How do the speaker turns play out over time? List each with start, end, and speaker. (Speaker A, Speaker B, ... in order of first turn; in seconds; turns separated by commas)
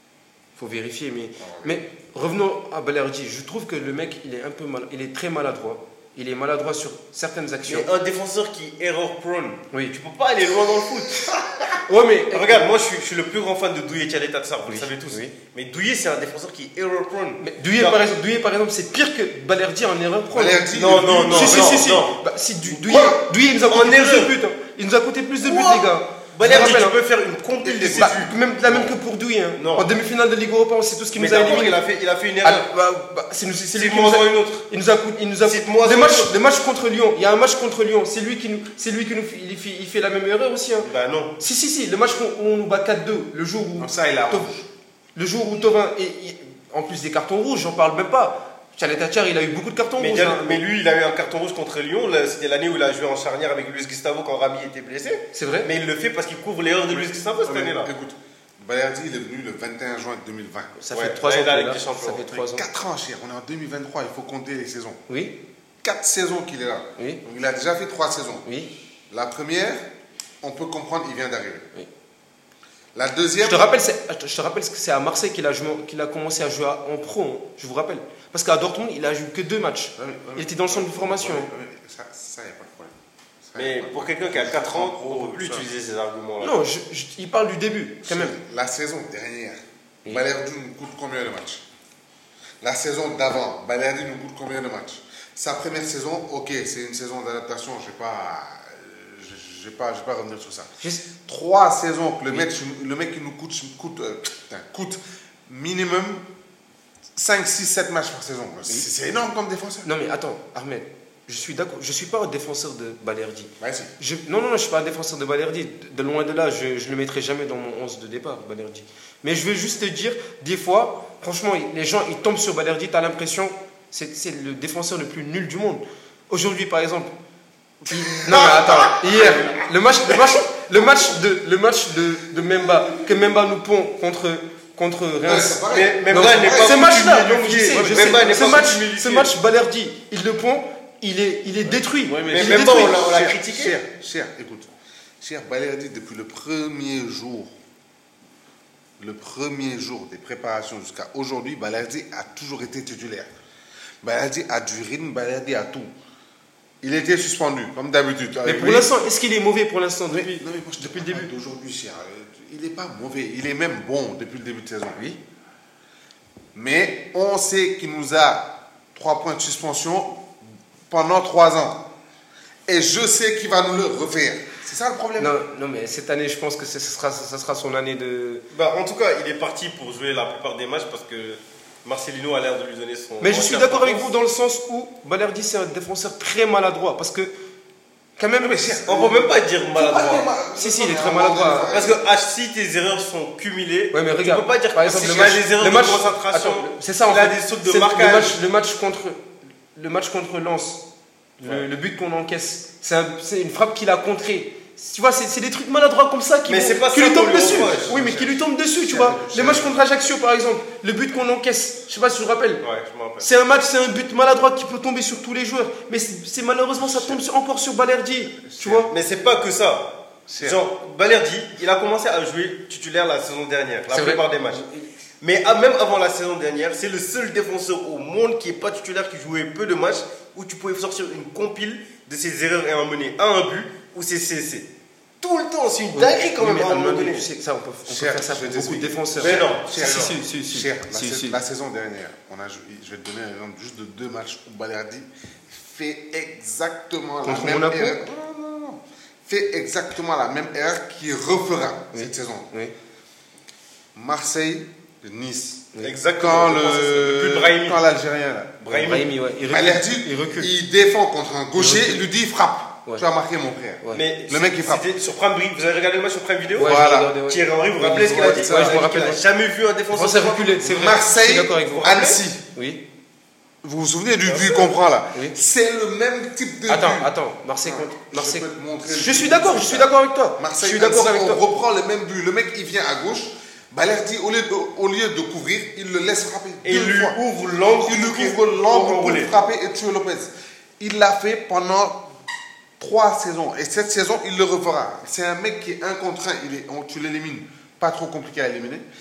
Speaker A: 0.6-7.9, Speaker B: 1.4-1.8, Speaker C: 7.7-11.4, Speaker B: 11.3-11.6, Speaker A: 11.9-12.6, Speaker C: 12.3-18.0, Speaker A: 14.7-15.3, Speaker A: 17.4-27.0, Speaker B: 20.3-21.9, Speaker C: 20.7-22.2, Speaker C: 22.7-24.4, Speaker C: 25.4-28.9, Speaker B: 26.4-26.8, Speaker B: 27.6-28.4, Speaker A: 27.9-31.8, Speaker C: 29.6-29.9, Speaker C: 31.1-32.7, Speaker A: 32.4-40.9, Speaker C: 33.8-34.7, Speaker C: 35.4-36.4, Speaker C: 40.8-41.4, Speaker A: 41.4-44.5, Speaker B: 43.8-44.7, Speaker A: 45.1-50.6, Speaker C: 50.0-57.9, Speaker A: 55.3-55.7, Speaker B: 56.9-60.8, Speaker A: 60.8-62.6, Speaker C: 60.9-62.4, Speaker B: 62.4-65.0, Speaker A: 65.1-65.4, Speaker B: 65.8-68.5, Speaker A: 68.5-68.7, Speaker B: 69.1-69.8, Speaker B: 70.4-71.7, Speaker B: 72.9-73.7, Speaker A: 73.4-81.5, Speaker B: 80.0-85.7, Speaker C: 83.6-86.6, Speaker A: 86.4-88.4, Speaker B: 88.0-91.6, Speaker B: 92.6-106.2, Speaker A: 100.8-101.1, Speaker B: 107.1-109.9, Speaker A: 109.8-127.1, Speaker B: 113.6-113.9, Speaker B: 127.8-129.6, Speaker A: 127.9-143.2, Speaker B: 130.8-131.0, Speaker B: 132.3-133.1, Speaker B: 135.2-137.0, Speaker C: 135.7-139.3, Speaker B: 137.7-138.6, Speaker B: 142.0-144.7, Speaker C: 142.2-143.8, Speaker B: 145.2-147.5, Speaker B: 149.0-153.3, Speaker B: 154.0-155.9, Speaker B: 156.8-159.0, Speaker A: 158.4-161.3, Speaker B: 160.1-165.0, Speaker B: 166.5-170.3, Speaker B: 170.9-171.9, Speaker B: 172.7-175.4, Speaker A: 175.2-178.4, Speaker C: 178.5-184.1, Speaker A: 183.2-187.3, Speaker A: 188.2-188.7, Speaker B: 188.4-192.0, Speaker C: 188.8-190.3, Speaker A: 190.5-191.7, Speaker C: 191.7-198.4, Speaker A: 193.9-199.2, Speaker A: 199.8-200.8, Speaker A: 201.4-212.6, Speaker C: 206.5-208.0, Speaker B: 207.4-209.7, Speaker C: 212.6-213.3, Speaker A: 213.2-218.9, Speaker B: 216.8-217.2, Speaker B: 218.4-218.9, Speaker C: 218.9-224.6, Speaker B: 220.3-220.6, Speaker A: 223.9-224.9, Speaker C: 225.2-234.7, Speaker C: 235.2-237.3, Speaker A: 235.9-241.4, Speaker B: 237.9-252.5, Speaker C: 239.2-240.2, Speaker A: 247.2-248.0, Speaker A: 251.9-252.7, Speaker B: 253.9-264.9, Speaker C: 255.8-257.8, Speaker C: 258.6-259.1, Speaker A: 258.8-260.5, Speaker A: 261.6-262.1, Speaker C: 263.9-270.6, Speaker B: 266.6-267.2, Speaker A: 266.6-269.2, Speaker B: 268.0-268.9, Speaker A: 269.9-272.8, Speaker B: 270.6-272.4, Speaker C: 271.8-272.1, Speaker B: 273.6-277.1, Speaker C: 274.2-274.7, Speaker A: 276.7-281.4, Speaker B: 277.6-287.2, Speaker C: 286.6-289.3, Speaker B: 287.8-292.1, Speaker B: 292.8-298.9